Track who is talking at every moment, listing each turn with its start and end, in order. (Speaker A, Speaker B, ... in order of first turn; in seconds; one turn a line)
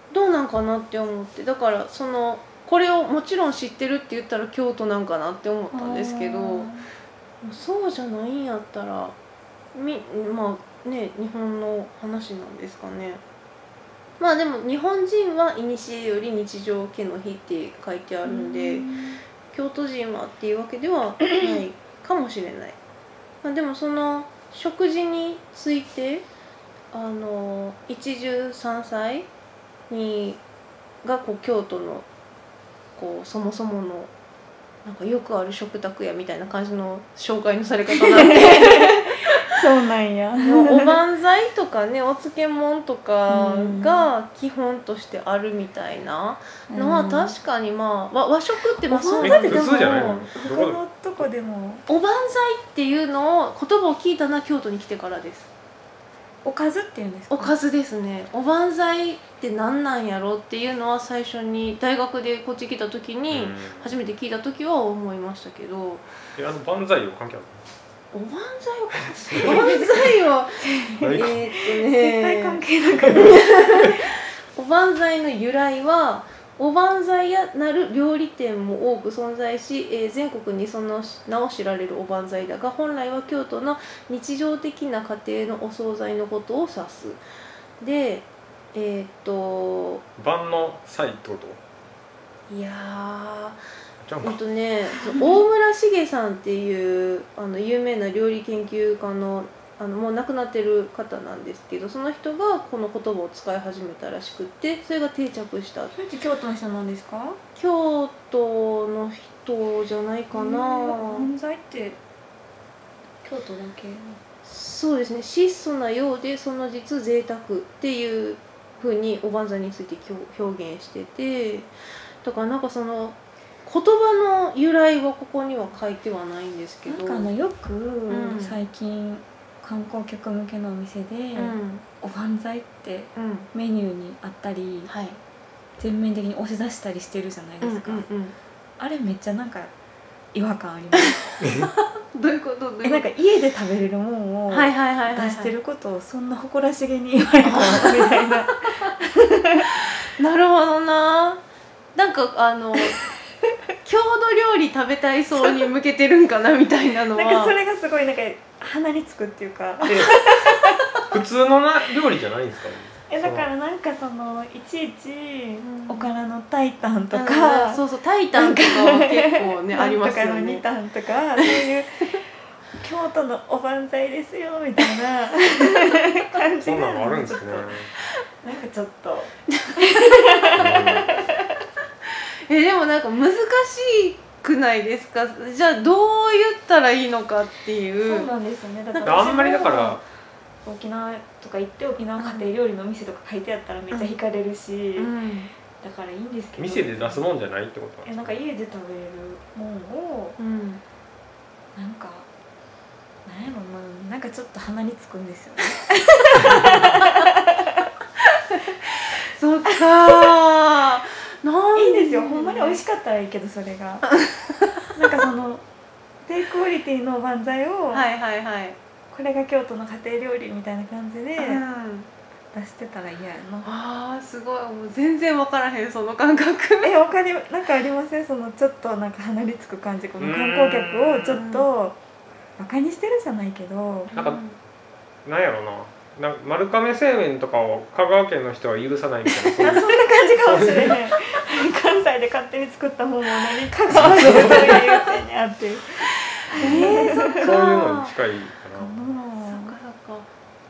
Speaker A: 0.1-6.7
Speaker B: 5.7-6.9
Speaker A: 7.4-9.2
Speaker A: 9.7-13.2
Speaker A: 14.2-18.9
Speaker B: 18.2-19.2
Speaker A: 19.5-22.8
Speaker A: 23.4-26.3
Speaker A: 26.9-29.3
Speaker A: 29.9-30.4
Speaker A: 31.0-32.1
Speaker A: 33.0-34.1
Speaker A: 34.9-39.4
Speaker B: 38.0-41.0
Speaker A: 40.4-50.2
Speaker B: 43.3-44.1
Speaker B: 46.7-47.3
Speaker B: 48.9-51.8
Speaker C: 49.2-50.8
Speaker A: 51.9-55.5
Speaker B: 56.4-57.5
Speaker A: 57.3-66.1
Speaker C: 63.3-64.0
Speaker C: 66.4-67.6
Speaker A: 68.1-72.6
Speaker B: 69.5-69.9
Speaker B: 70.7-74.0
Speaker C: 71.0-71.4
Speaker C: 73.0-73.3
Speaker A: 73.2-74.0
Speaker A: 74.5-87.2
Speaker A: 87.8-90.0
Speaker C: 90.2-91.6
Speaker A: 92.5-93.6
Speaker C: 94.0-94.4
Speaker A: 94.2-106.0
Speaker B: 95.1-95.4
Speaker B: 106.0-107.4
Speaker A: 107.6-111.3
Speaker B: 110.3-112.0
Speaker B: 113.2-114.2
Speaker A: 114.4-121.7
Speaker A: 122.2-127.3
Speaker B: 126.9-134.9
Speaker A: 128.1-128.6
Speaker A: 131.4-131.8
Speaker A: 133.2-133.5
Speaker A: 134.9-135.2
Speaker B: 135.8-138.1
Speaker A: 137.6-138.3
Speaker B: 138.8-139.7
Speaker B: 140.3-141.2
Speaker A: 141.4-143.1
Speaker C: 141.4-141.7
Speaker B: 142.8-149.7
Speaker A: 144.5-145.5
Speaker A: 147.4-148.9
Speaker A: 150.1-151.4
Speaker A: 151.9-153.0
Speaker A: 153.8-157.6
Speaker B: 157.1-160.8
Speaker C: 159.8-160.3
Speaker C: 161.1-163.5
Speaker B: 163.1-167.8
Speaker A: 165.6-166.1
Speaker A: 167.1-170.6
Speaker B: 168.3-172.1
Speaker B: 172.8-177.8
Speaker C: 176.6-177.9
Speaker B: 178.4-181.5
Speaker A: 179.7-180.5
Speaker C: 180.6-181.4
Speaker A: 182.5-188.3
Speaker B: 188.0-190.0
Speaker C: 189.0-190.0
Speaker B: 190.7-195.1
Speaker A: 192.2-192.5
Speaker A: 195.0-195.5
Speaker B: 195.8-197.2
Speaker C: 196.6-198.4
Speaker B: 198.1-200.4
Speaker A: 200.4-200.8
Speaker B: 201.8-202.3
Speaker B: 203.2-207.9
Speaker A: 206.8-207.2
Speaker A: 208.8-212.8
Speaker B: 210.0-210.3
Speaker B: 211.8-214.1
Speaker A: 214.1-214.7
Speaker B: 214.9-215.7
Speaker B: 216.2-218.1
Speaker A: 217.9-218.8
Speaker B: 219.1-221.6
Speaker A: 221.4-222.1
Speaker B: 222.5-223.7
Speaker A: 223.6-226.9
Speaker B: 226.8-232.0
Speaker C: 230.2-231.4
Speaker A: 231.3-231.7
Speaker B: 232.6-234.1
Speaker A: 234.1-234.6
Speaker C: 234.1-234.4
Speaker C: 235.2-241.1
Speaker B: 239.5-247.5
Speaker C: 243.9-244.9
Speaker A: 246.5-248.1
Speaker C: 246.6-249.1
Speaker B: 248.8-249.8
Speaker A: 249.4-250.3